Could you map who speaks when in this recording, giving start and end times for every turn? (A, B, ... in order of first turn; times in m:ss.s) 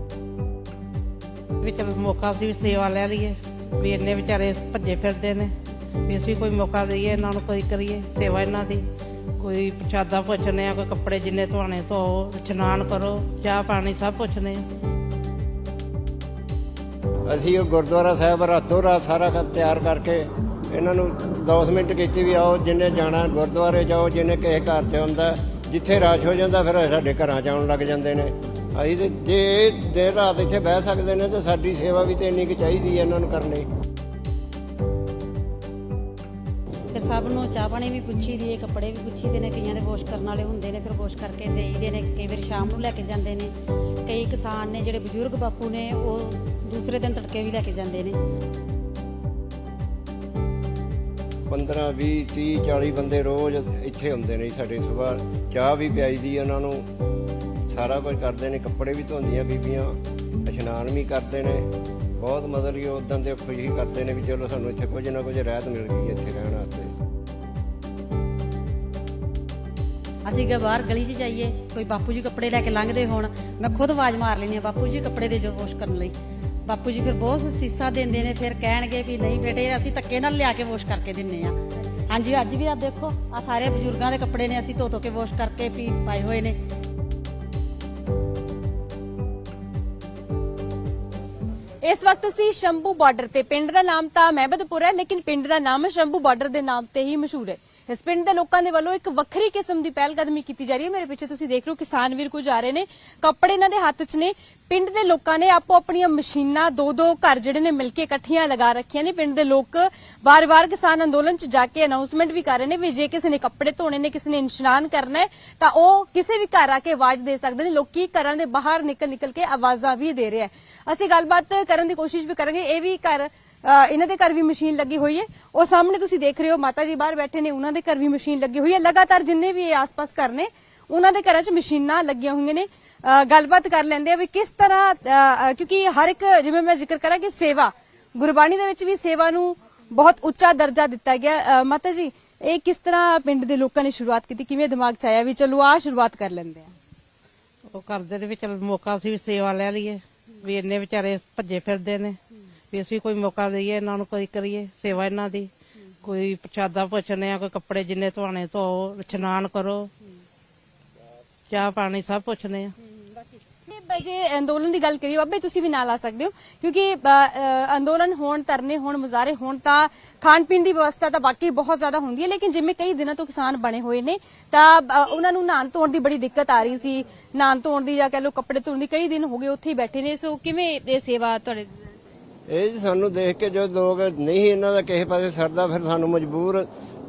0:01.6-0:05.5 A
0:06.1-0:08.9 A
0:09.4-0:14.6 A
0:17.3-0:33.7 B
0:36.9-0:43.5 C
0:44.1-0:48.2 C
0:51.5-0:56.9 B
0:57.7-1:06.9 B
1:10.3-1:16.1 C
1:16.7-1:21.6 C
1:22.1-1:26.6 C
1:31.8-2:26.7 D
2:27.7-2:32.2 A
2:32.7-2:35.5 A
2:36.0-2:39.9 A
2:41.5-2:42.7 A
2:43.7-3:01.9 D
3:02.5-3:06.7 B